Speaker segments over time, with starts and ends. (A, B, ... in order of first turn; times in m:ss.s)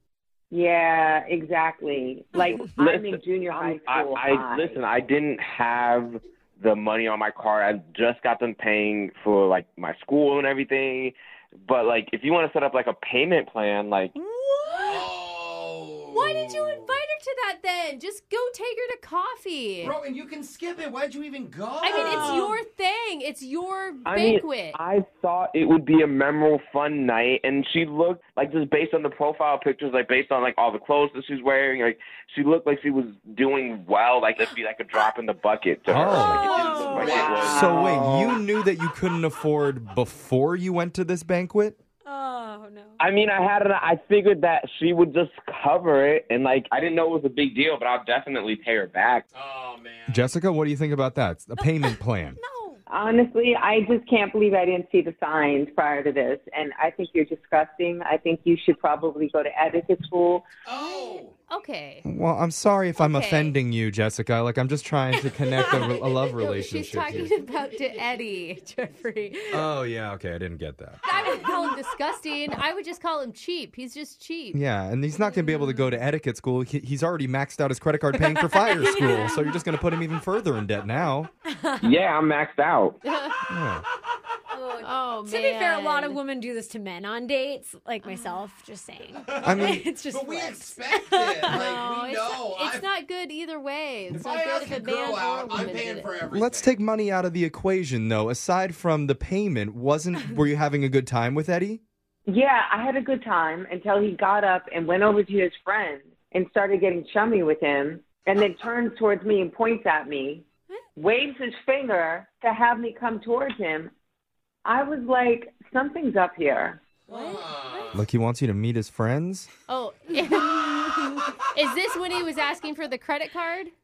0:00.5-0:04.8 A
0:02.6-0:14.1 B
0:14.2-0:15.0 C
0:14.7-0:15.0 D
0:14.9-0:17.0 E
0:16.1-0:20.0 C
0:19.8-0:22.5 E
0:21.8-0:24.8 C
0:21.9-0:22.6 D
0:24.1-0:38.3 B
0:35.9-0:36.5 F
0:36.0-0:38.0 E
0:36.1-0:37.3 D
0:37.1-0:37.8 A
0:37.4-0:41.8 F
0:42.0-0:43.0 D
0:43.0-0:49.2 B
0:49.3-0:50.3 E
0:50.1-0:52.4 F
0:51.6-0:52.8 D
0:52.9-1:00.5 A
1:00.6-1:01.3 E
1:00.8-1:02.0 C
1:02.0-1:07.3 F
1:03.0-1:03.5 C
1:06.3-1:09.7 C
1:09.5-1:11.0 F
1:11.1-1:14.6 C
1:11.1-1:11.7 D
1:14.5-1:21.3 F
1:15.4-1:15.8 D
1:18.7-1:19.5 D
1:21.5-1:21.9 D
1:21.8-1:23.0 B
1:23.1-1:23.4 C
1:23.5-1:23.8 F
1:24.5-1:31.8 D
1:24.8-1:26.2 C
1:28.0-1:28.4 C
1:29.2-1:32.9 E
1:29.4-1:29.8 F
1:31.5-1:36.1 C
1:34.1-1:36.8 E
1:34.2-1:35.9 D
1:36.3-1:41.8 F
1:42.3-1:53.9 A
1:54.6-1:56.8 A
1:57.1-1:58.1 E
1:57.1-1:58.0 D
1:57.9-1:59.5 F
1:59.7-2:03.7 C